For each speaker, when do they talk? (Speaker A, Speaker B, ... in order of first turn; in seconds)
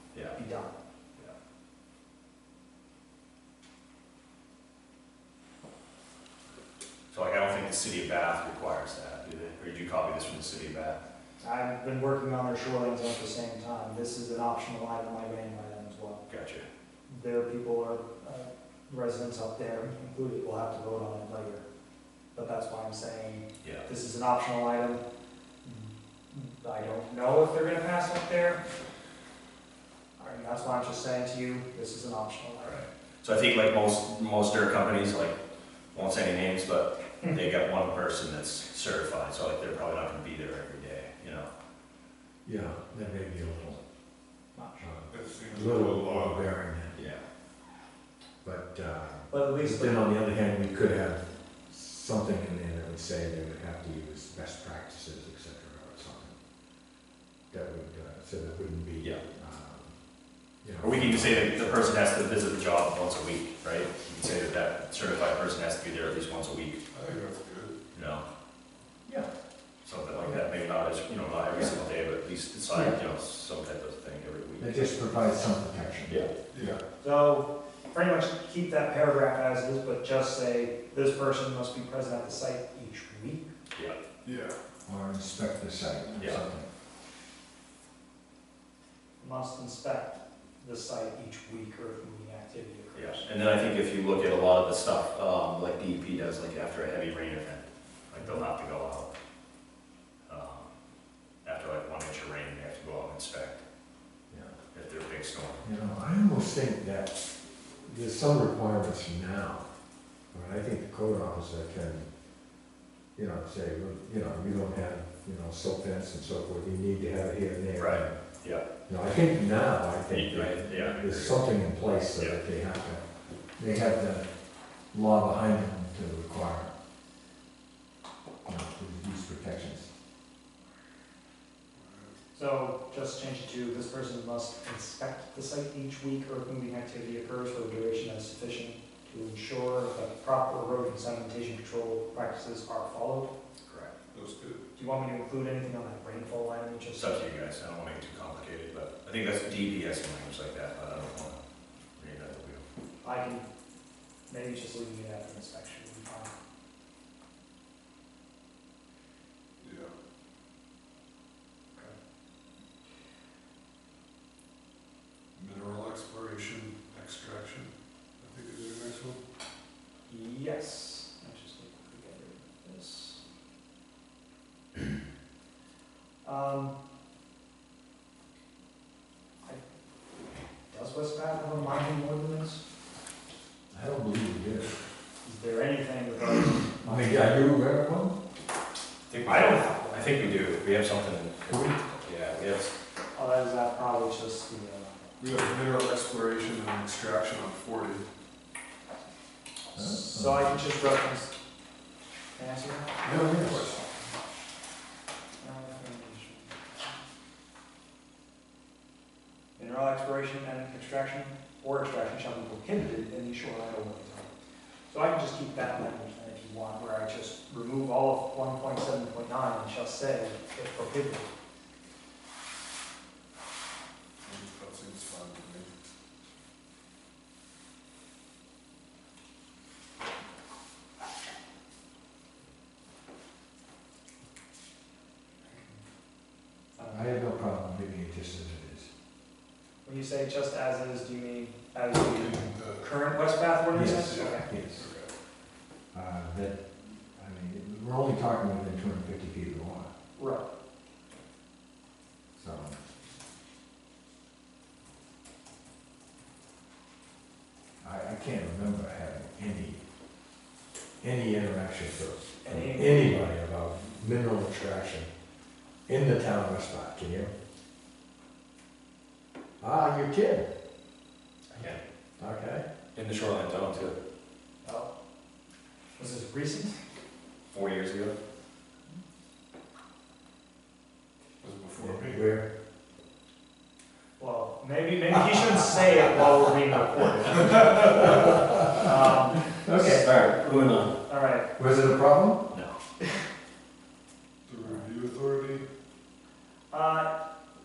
Speaker A: 0.1-0.4, 7.1-11.0, 16.3-16.6, 32.6-35.4, 35.9-41.5, 47.0-47.2, 60.8-66.8, 67.9-68.2, 69.8-74.8, 83.7-84.0, 86.2-86.4, 92.9-99.1, 100.3-100.7, 101.4-103.6, 104.7-105.7, 117.8-118.6, 120.1-122.4, 143.7-143.9, 147.0-151.4, 152.0-152.6, 189.1-192.7, 271.5-271.8, 272.9-273.9, 277.5-278.2, 289.7-290.9
Speaker B: 0.3-0.8, 11.4-16.2, 17.1-21.6, 22.4-25.0, 25.6-28.6, 30.2-32.9, 44.5-44.9, 49.3-50.1, 77.0-83.5, 89.2-93.3, 132.3-143.3, 144.8-147.2, 153.0-153.5, 154.3-156.3, 170.1-173.2, 176.2-176.7, 180.7-182.6, 185.2-187.5, 189.3-190.3, 193.1-195.1, 199.8-201.3, 202.4-203.0, 205.4-206.6, 209.6-214.3, 214.9-221.3, 235.4-235.8, 236.8-237.1, 239.8-244.5, 250.2-250.4, 262.4-263.3, 274.6-274.9, 276.0-276.8, 284.2-289.4, 290.5-291.5, 296.7-297.1
Speaker C: 42.5-43.8, 44.8-47.0, 48.4-56.4, 57.5-60.0, 60.6-62.0, 74.6-76.8, 84.9-86.7, 104.3-104.6, 105.6-109.7, 110.3-112.1, 113.2-118.2, 118.9-123.0, 123.6-124.3, 124.9-126.7, 128.4-129.9, 183.7-184.7, 186.8-188.2, 191.5-191.8, 199.8-200.5, 203.3-203.6, 236.9-238.9, 243.7-244.9, 245.9-246.6, 247.1-249.9, 252.4-252.8, 257.8-259.8, 261.0-265.1, 265.9-267.3, 269.6-270.5, 272.2-272.6, 281.8-282.5, 288.5-288.9, 289.6-290.1, 291.6-292.5
Speaker D: 45.1-46.5, 66.9-67.8, 76.5-76.8, 84.2-84.6, 131.8-132.1, 144.1-144.6, 159.6-159.9, 165.4-169.2, 195.2-198.1, 203.0-203.8, 224.2-225.7, 242.0-242.9, 244.1-245.1, 281.4-282.3, 294.5-295.6